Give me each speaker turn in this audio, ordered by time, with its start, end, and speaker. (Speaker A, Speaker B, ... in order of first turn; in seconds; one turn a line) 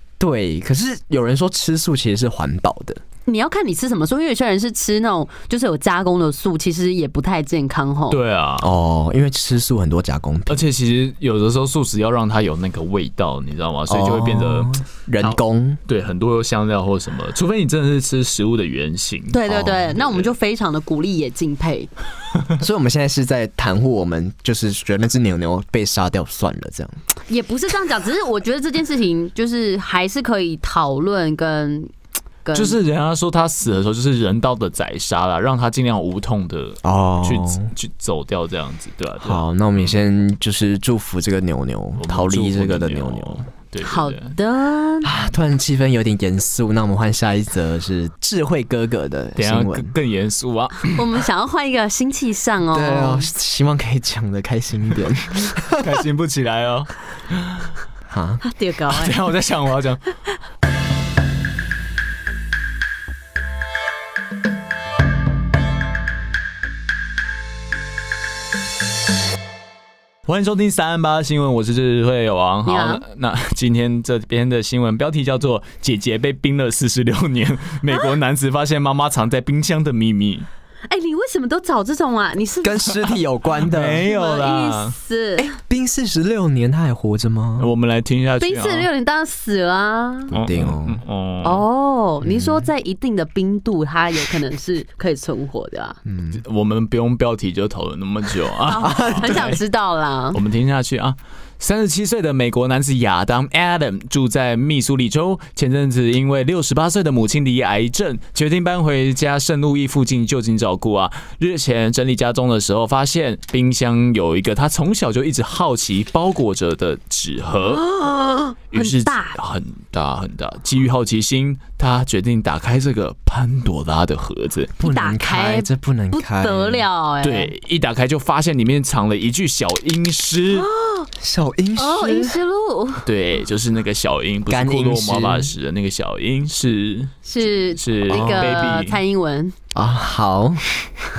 Speaker A: 0.2-3.0
Speaker B: 3.2-8.2
Speaker C: 8.1-8.7
Speaker A: 8.6-10.6
Speaker C: 10.5-19.4
Speaker A: 13.9-15.8
Speaker B: 19.3-21.9
Speaker A: 19.4-19.9
Speaker A: 22.6-26.9
Speaker B: 27.3-31.9
Speaker B: 32.4-32.8
Speaker C: 32.5-39.4
Speaker A: 36.8-37.7
Speaker A: 39.2-43.5
Speaker C: 42.0-44.3
Speaker B: 43.8-45.1
Speaker A: 45.0-49.9
Speaker C: 49.4-50.9
Speaker B: 50.9-53.3
Speaker A: 52.7-56.0
Speaker C: 55.8-57.7
Speaker A: 58.1-58.4
Speaker B: 58.4-59.2
Speaker C: 58.9-60.0
Speaker C: 70.3-80.5
Speaker B: 72.6-73.0
Speaker B: 80.9-83.1
Speaker A: 82.6-84.0
Speaker C: 83.6-84.9
Speaker B: 84.0-85.5
Speaker A: 85.4-87.7
Speaker C: 87.6-88.9
Speaker B: 88.4-90.3
Speaker A: 90.3-91.0
Speaker C: 90.3-91.6
Speaker B: 91.4-96.0
Speaker A: 92.2-92.6
Speaker A: 96.0-96.4
Speaker C: 96.4-99.5
Speaker B: 98.6-100.4
Speaker A: 98.8-99.6
Speaker C: 100.3-117.9
Speaker B: 117.7-119.4
Speaker C: 118.7-124.8
Speaker A: 124.8-126.8
Speaker B: 124.8-127.5
Speaker C: 127.2-130.7
Speaker B: 130.6-131.1
Speaker A: 131.2-132.4
Speaker B: 131.8-133.0
Speaker C: 133.0-139.0
Speaker A: 134.5-135.5
Speaker B: 137.2-139.5
Speaker A: 138.1-138.7
Speaker A: 139.7-140.9